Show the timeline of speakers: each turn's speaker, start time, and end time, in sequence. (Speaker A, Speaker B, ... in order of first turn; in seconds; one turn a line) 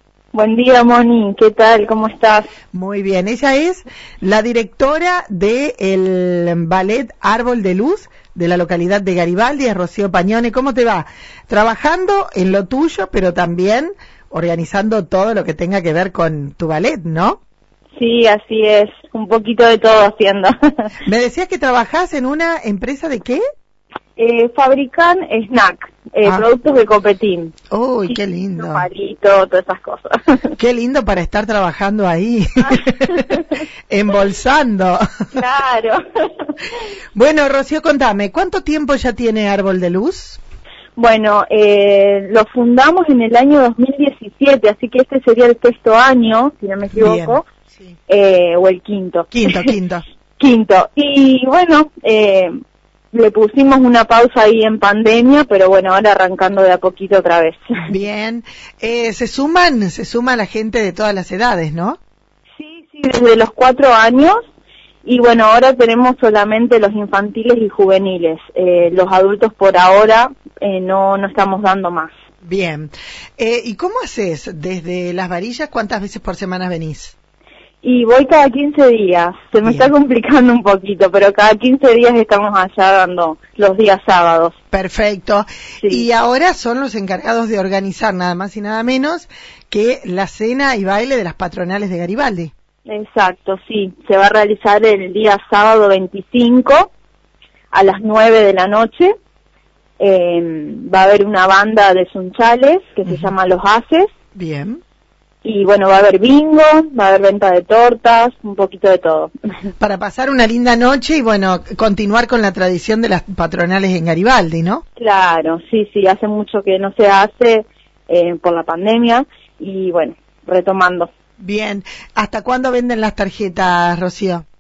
Speaker A: 0.3-2.5
Speaker B: 2.7-17.4
Speaker A: 18.0-20.9
Speaker B: 21.0-23.4
Speaker A: 24.2-27.5
Speaker B: 27.7-28.9
Speaker A: 28.1-30.4
Speaker B: 30.6-33.4
Speaker A: 32.6-33.6
Speaker B: 33.9-35.0
Speaker A: 35.3-36.5
Speaker B: 37.1-40.4
Speaker A: 41.0-47.4
Speaker B: 47.0-47.9
Speaker A: 48.1-49.7
Speaker B: 49.3-50.0
Speaker A: 50.4-52.5
Speaker A: 53.1-57.8
Speaker B: 57.9-62.0
Speaker A: 62.6-64.4
Speaker A: 65.0-72.1
Speaker B: 72.4-77.1
Speaker A: 77.8-84.5
Speaker B: 79.6-79.9
Speaker B: 84.7-92.5
Speaker A: 92.9-96.9
Speaker A: 97.7-99.1
Speaker A: 100.0-104.1
Speaker B: 104.3-104.8
Speaker A: 105.4-109.3
Speaker B: 109.8-114.8
Speaker A: 115.0-121.1
Speaker B: 121.4-124.4